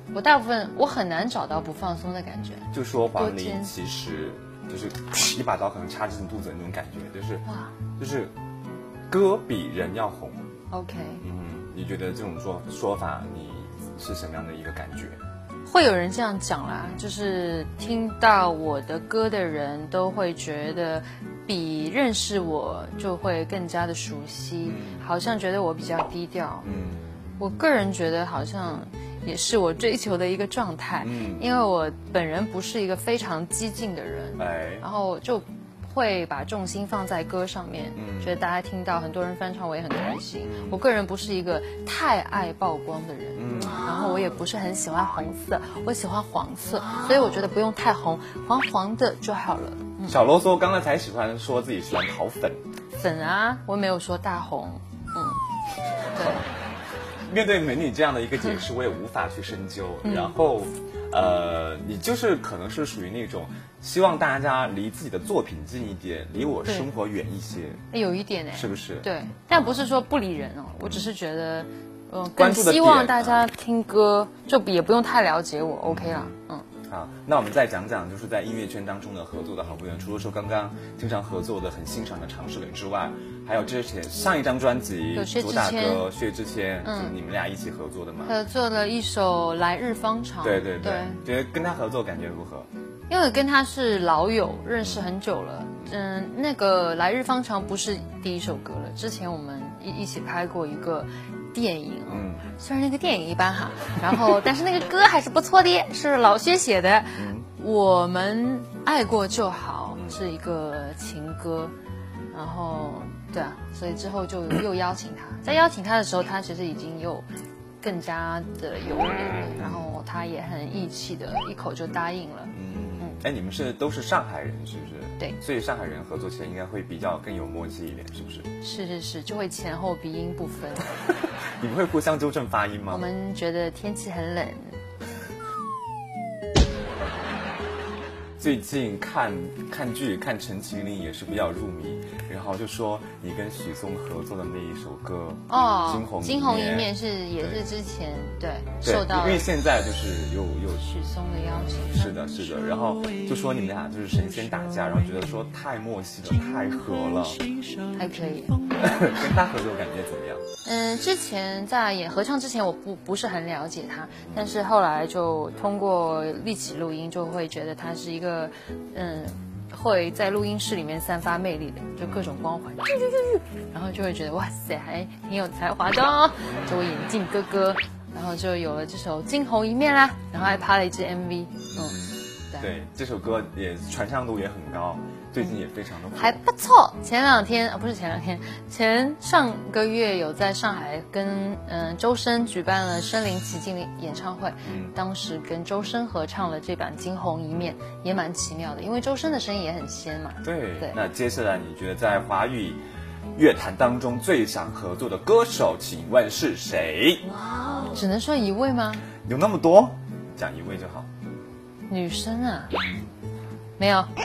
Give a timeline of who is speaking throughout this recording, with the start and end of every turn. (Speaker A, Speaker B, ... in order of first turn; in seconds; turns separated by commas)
Speaker A: 0.1-3.8, Speaker B: 2.7-7.5, Speaker A: 7.5-7.8, Speaker B: 8.0-8.3, Speaker B: 9.1-10.5, Speaker A: 10.7-11.2, Speaker B: 11.2-15.2, Speaker A: 15.7-26.7, Speaker B: 24.6-25.1, Speaker B: 26.6-27.1, Speaker A: 27.4-50.3, Speaker B: 31.0-31.4, Speaker B: 34.4-34.9, Speaker B: 38.0-38.4, Speaker B: 40.4-40.8, Speaker B: 43.4-43.9, Speaker B: 50.1-52.6, Speaker A: 53.0-55.4, Speaker A: 56.1-56.4, Speaker B: 57.2-67.8, Speaker A: 60.0-60.4, Speaker A: 67.9-76.7, Speaker B: 68.5-69.8, Speaker B: 70.8-71.1, Speaker B: 72.4-73.5, Speaker B: 75.8-76.3, Speaker B: 76.9-88.3, Speaker A: 85.1-86.1, Speaker A: 86.8-87.2, Speaker A: 88.2-91.2, Speaker B: 90.4-92.7, Speaker A: 93.1-111.7, Speaker B: 102.1-102.5, Speaker B: 107.2-107.5, Speaker B: 110.0-110.2, Speaker A: 112.3-117.3, Speaker A: 117.8-123.2, Speaker B: 119.6-119.8, Speaker B: 122.5-128.5, Speaker A: 128.6-130.9, Speaker B: 131.6-133.1, Speaker A: 132.9-134.8, Speaker B: 138.4-147.6, Speaker A: 145.5-149.5, Speaker B: 148.8-150.9, Speaker A: 150.8-152.2, Speaker B: 151.9-157.4, Speaker A: 157.9-158.6, Speaker B: 158.8-160.4, Speaker A: 160.7-182.0, Speaker B: 164.2-164.6, Speaker B: 172.0-172.4, Speaker B: 176.5-176.9, Speaker B: 180.3-180.7, Speaker B: 181.7-186.4, Speaker A: 186.2-201.0, Speaker B: 194.6-195.0, Speaker B: 200.4-202.8, Speaker B: 203.3-207.3, Speaker A: 207.8-209.1, Speaker B: 209.2-211.1, Speaker A: 211.9-212.7, Speaker A: 213.8-214.1